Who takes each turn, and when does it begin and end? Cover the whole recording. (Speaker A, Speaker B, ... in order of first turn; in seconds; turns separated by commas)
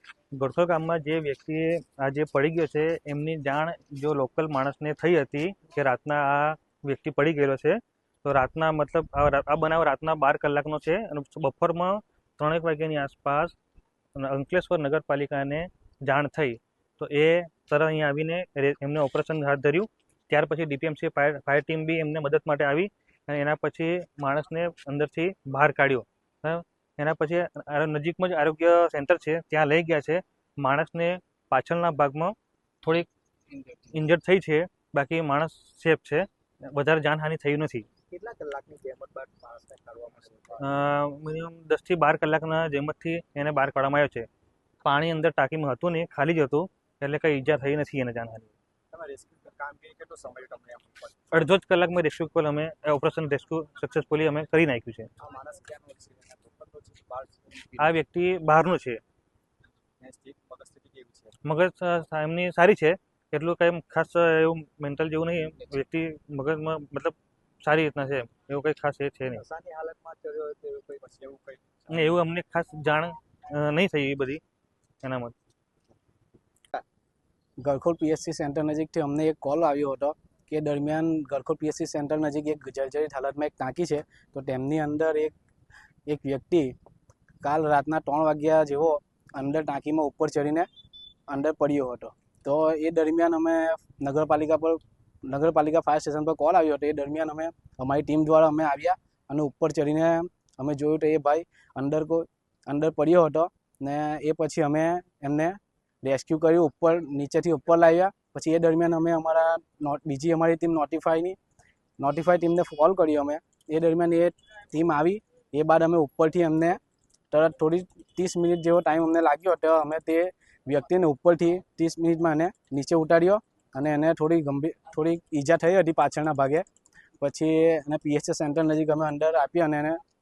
Speaker A: 0.3-13.5, Speaker A: 14.2-33.1, Speaker A: 33.9-37.9, Speaker B: 38.1-40.7, Speaker A: 40.6-44.2, Speaker A: 44.8-48.5, Speaker B: 48.9-51.3, Speaker A: 51.3-55.1, Speaker B: 55.2-58.0, Speaker A: 57.8-59.0, Speaker B: 60.0-61.3, Speaker A: 61.4-69.4, Speaker B: 69.3-72.2, Speaker A: 71.9-74.4, Speaker A: 75.0-75.3, Speaker C: 77.6-85.3, Speaker C: 86.1-86.7, Speaker C: 87.4-90.7, Speaker C: 91.3-111.4, Speaker C: 112.0-116.8, Speaker C: 117.3-126.6, Speaker C: 127.2-130.0